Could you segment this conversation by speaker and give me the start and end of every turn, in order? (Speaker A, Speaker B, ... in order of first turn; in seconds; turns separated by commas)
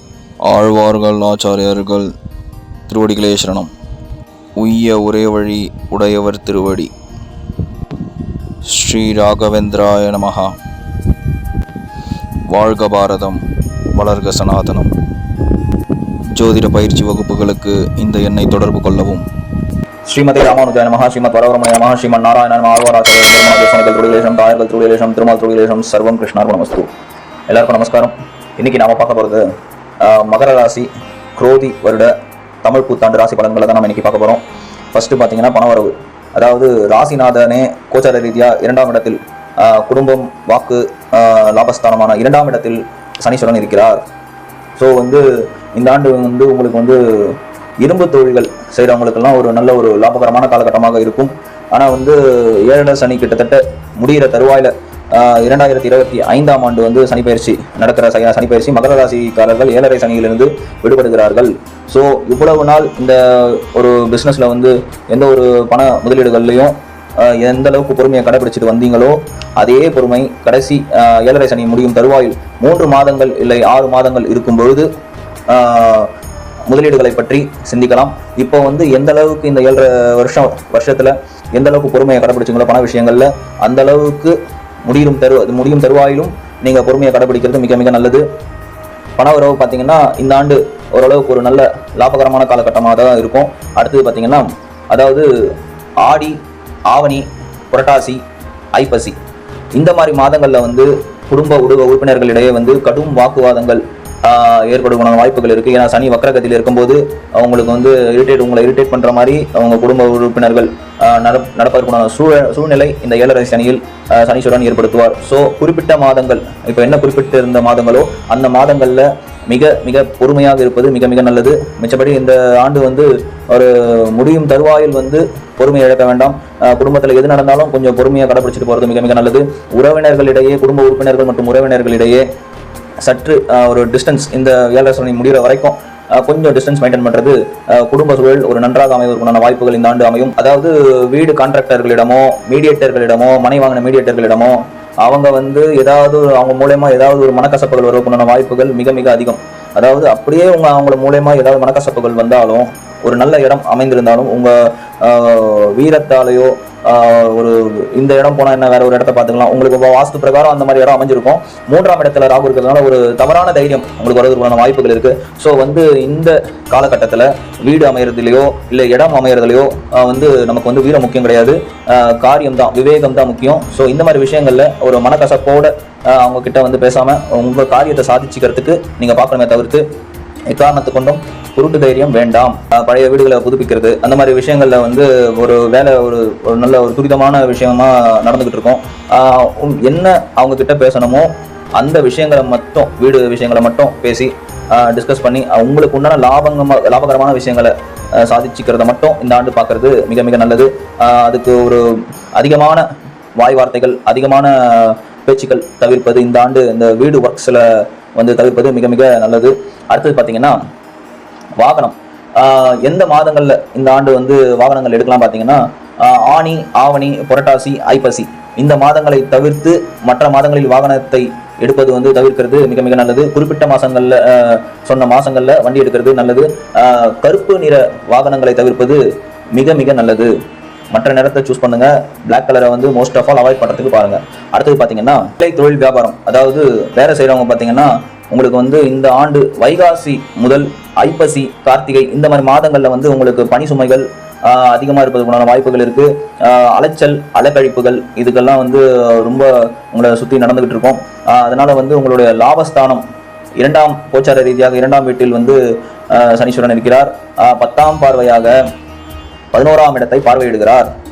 Speaker A: 0.5-2.0, Speaker B: 0.6-2.0, Speaker A: 2.9-3.6, Speaker B: 2.9-3.7, Speaker A: 4.6-6.8, Speaker B: 4.9-6.9, Speaker B: 8.8-10.3, Speaker A: 8.8-10.4, Speaker B: 12.6-13.4, Speaker A: 12.7-13.3, Speaker B: 14.0-14.8, Speaker A: 14.0-14.8, Speaker B: 16.4-19.2, Speaker B: 20.1-26.9, Speaker B: 27.5-29.5, Speaker B: 30.0-32.1, Speaker B: 32.6-44.0, Speaker B: 44.8-74.9, Speaker B: 75.5-76.1, Speaker B: 76.7-84.3, Speaker B: 84.9-88.2, Speaker B: 89.2-95.3, Speaker B: 96.0-96.4, Speaker B: 96.9-98.2, Speaker B: 98.8-99.2, Speaker B: 99.8-132.2, Speaker B: 133.0-179.8, Speaker B: 180.5-202.8, Speaker B: 203.4-210.6, Speaker B: 211.6-229.0, Speaker B: 229.5-230.3, Speaker B: 230.9-253.0, Speaker B: 253.6-258.6, Speaker B: 259.5-260.9